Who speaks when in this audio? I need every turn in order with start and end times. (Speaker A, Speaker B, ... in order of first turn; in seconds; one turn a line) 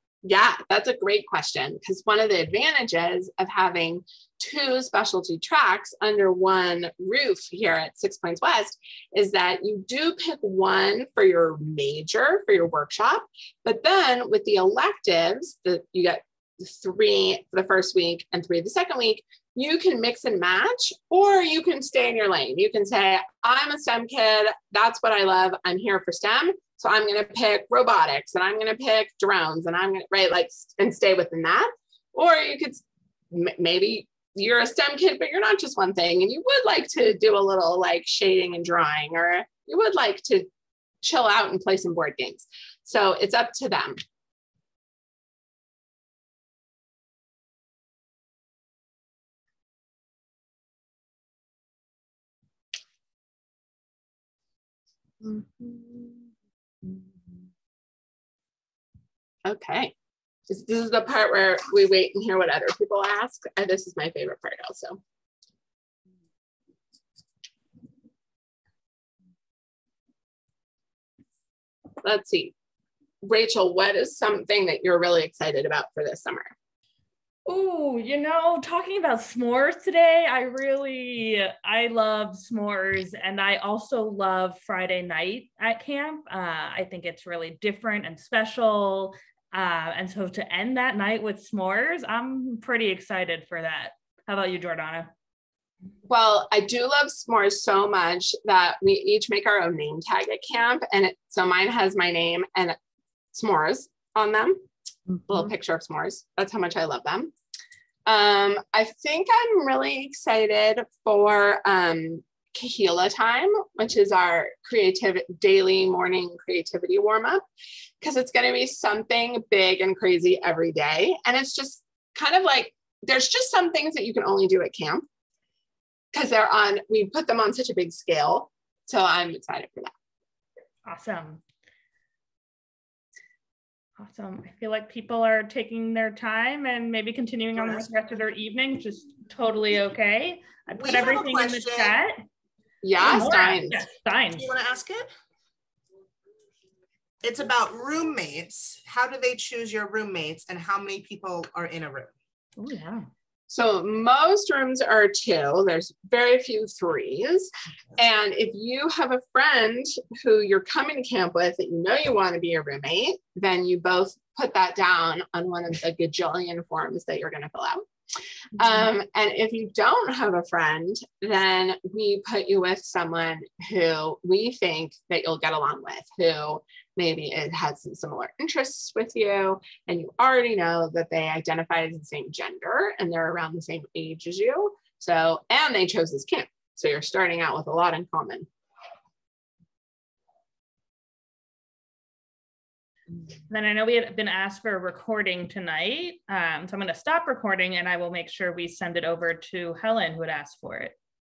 Speaker A: 0.2-40.5
Speaker A: 41.0-44.0
Speaker A: 59.5-59.9
Speaker A: 60.5-65.0
Speaker A: 72.0-72.5
Speaker A: 73.2-76.5
Speaker B: 77.5-95.1
Speaker A: 96.1-102.8
Speaker A: 103.3-104.6
Speaker A: 105.3-107.3
Speaker A: 108.1-117.4
Speaker A: 118.0-125.0
Speaker A: 126.1-129.9
Speaker B: 130.9-131.4
Speaker B: 134.0-142.2
Speaker C: 137.6-137.9
Speaker C: 140.8-142.0
Speaker A: 142.8-143.8
Speaker B: 143.0-144.5
Speaker C: 144.3-145.1
Speaker C: 147.2-152.1
Speaker B: 152.6-153.1
Speaker A: 153.5-167.8
Speaker A: 168.6-188.5
Speaker B: 193.5-200.9